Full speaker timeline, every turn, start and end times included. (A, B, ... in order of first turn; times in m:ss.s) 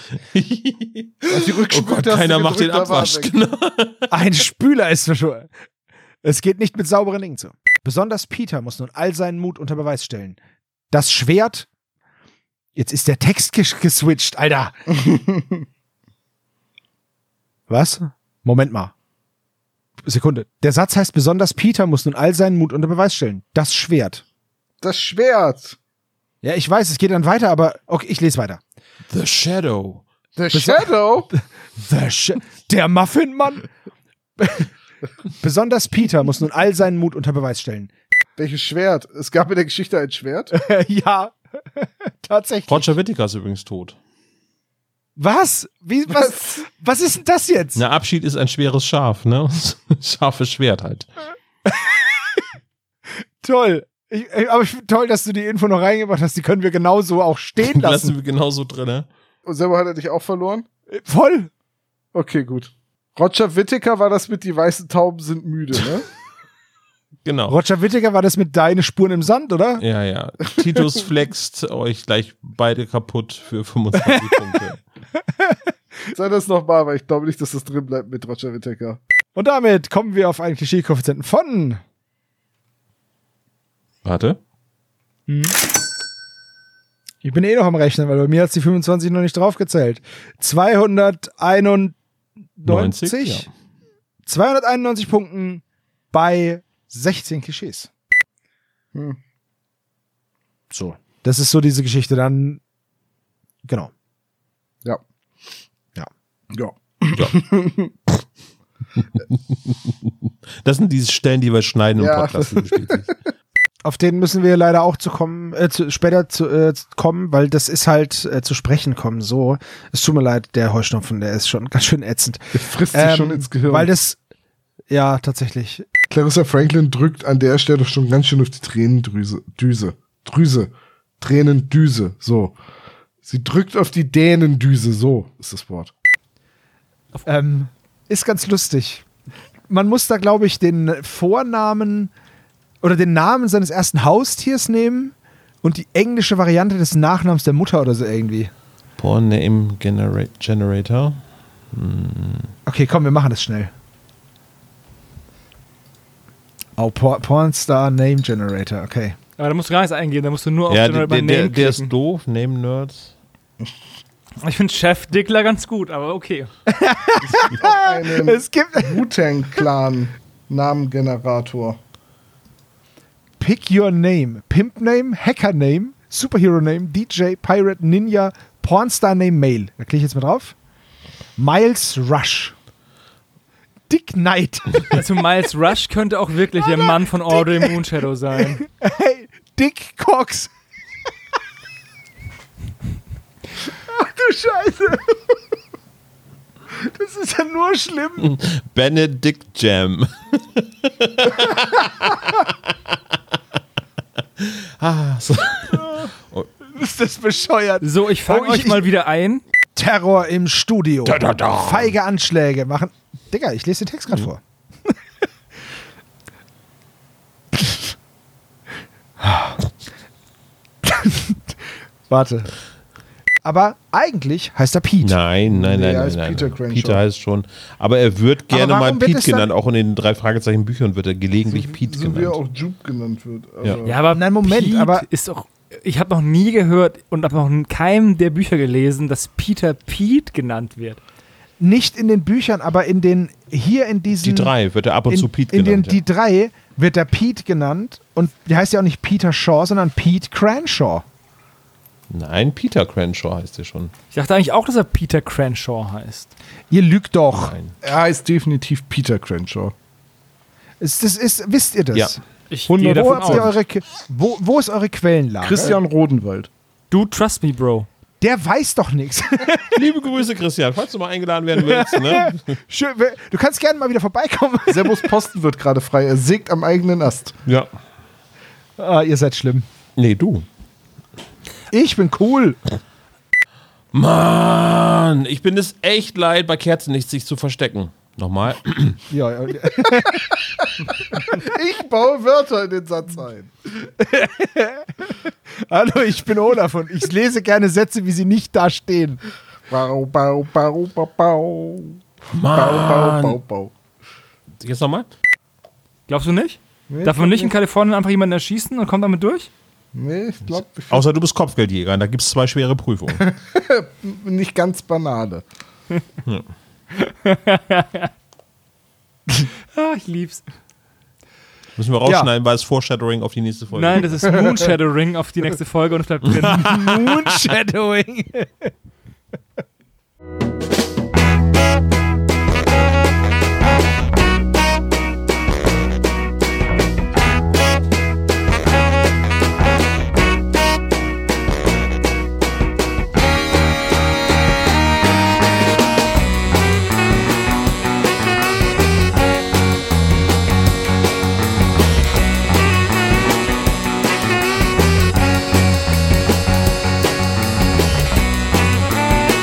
0:00.3-0:04.1 A
0:01.3-0:03.3 B
0:04.1-0:05.5 C
0:06.2-0:10.4 C
0:10.9-0:11.7 C
0:12.8-0:14.8 C
0:14.9-0:15.6 B
0:17.7-0:18.9 C
0:20.0-0:24.2 C
0:24.8-0:25.8 B
0:26.4-0:28.6 C
0:29.1-0:30.0 A
0:30.4-0:31.3 B
0:30.5-0:33.7 C
0:34.4-0:34.7 C
0:35.4-0:37.9 C
0:38.4-0:40.6 B
0:40.5-0:42.9 C
0:42.7-0:44.0 A
0:45.2-0:47.8 C
0:46.1-0:46.6 B
0:47.8-0:51.1 A
0:51.7-0:52.5 C
0:53.4-0:58.1 C
0:57.6-0:59.1 A
0:59.5-1:00.7 B
1:00.9-1:01.5 C
1:02.1-1:06.1 B
1:07.2-1:07.6 A
1:07.5-1:09.8 C
1:09.8-1:14.8 A
1:14.0-1:14.4 C
1:15.2-1:15.6 C
1:16.1-1:19.0 B
1:19.4-1:21.8 C
1:24.0-1:24.4 A
1:25.3-1:25.6 C
1:27.2-1:32.0 C
1:32.6-1:33.5 C
1:32.6-1:33.5 A
1:34.3-1:37.9 C
1:38.9-1:39.2 B
1:40.7-1:42.6 C
1:43.6-1:43.9 C
1:46.5-1:47.9 B
1:49.7-1:50.1 A
1:50.6-1:53.1 A
1:52.0-1:53.1 B
1:53.8-2:04.2 C
2:02.6-2:03.9 B
2:04.9-2:05.9 C
2:06.1-2:12.5 B
2:13.2-2:15.9 B
2:17.2-2:19.0 C
2:19.7-2:22.1 C
2:22.8-2:28.5 C
2:29.0-2:31.2 A
2:31.7-2:32.5 A
2:32.7-2:33.7 C
2:36.8-2:39.2 C
2:39.4-2:41.9 D
2:40.7-2:43.1 A
2:44.4-2:46.5 D
2:46.7-2:49.1 C
2:47.2-2:51.8 B
2:53.4-3:00.6 C
3:01.4-3:02.5 C
3:03.9-3:05.0 C
3:04.9-3:08.6 D
3:07.0-3:07.8 C
3:08.4-3:10.5 C
3:13.7-3:15.4 C
3:16.7-3:18.3 C
3:18.2-3:22.2 A
3:24.4-3:26.5 A
3:26.7-3:28.9 C
3:27.8-3:29.4 D
3:29.8-3:34.9 C
3:31.0-3:31.9 A
3:39.2-3:39.6 C
3:40.8-3:41.6 C
3:42.1-3:42.5 C
3:43.4-3:45.2 C
3:45.0-3:52.4 A
3:45.5-3:47.0 B
3:48.5-3:49.5 C
3:51.5-3:54.0 B
3:53.8-4:01.0 D
3:54.1-3:55.1 C
4:01.6-4:11.0 C
4:04.2-4:06.0 A
4:12.1-4:13.9 A
4:14.1-4:16.3 D
4:16.7-4:17.6 C
4:17.3-4:17.8 A
4:17.8-4:19.7 B
4:20.8-4:25.8 C
4:22.5-4:23.5 D
4:23.1-4:23.4 B
4:25.4-4:26.5 B
4:26.9-4:27.9 D
4:28.2-4:29.8 C
4:29.7-4:32.6 A
4:31.6-4:35.1 C
4:34.7-4:37.4 B
4:38.8-4:39.7 C
4:40.0-4:40.5 A
4:41.7-4:42.6 C
4:43.9-4:49.0 A
4:49.1-4:50.3 C
4:51.0-4:53.5 B
4:53.8-4:59.2 C
4:59.7-5:02.0 B
5:02.3-5:03.4 A
5:02.5-5:03.7 B
5:04.6-5:05.1 A
5:06.1-5:09.5 D
5:06.9-5:07.5 B
5:10.0-5:11.1 B
5:10.5-5:13.2 A
5:13.2-5:15.4 B
5:17.0-5:18.1 D
5:19.7-5:20.4 D
5:21.8-5:24.1 A
5:22.0-5:22.3 C
5:23.7-5:26.7 D
5:26.4-5:28.7 C
5:26.5-5:27.3 A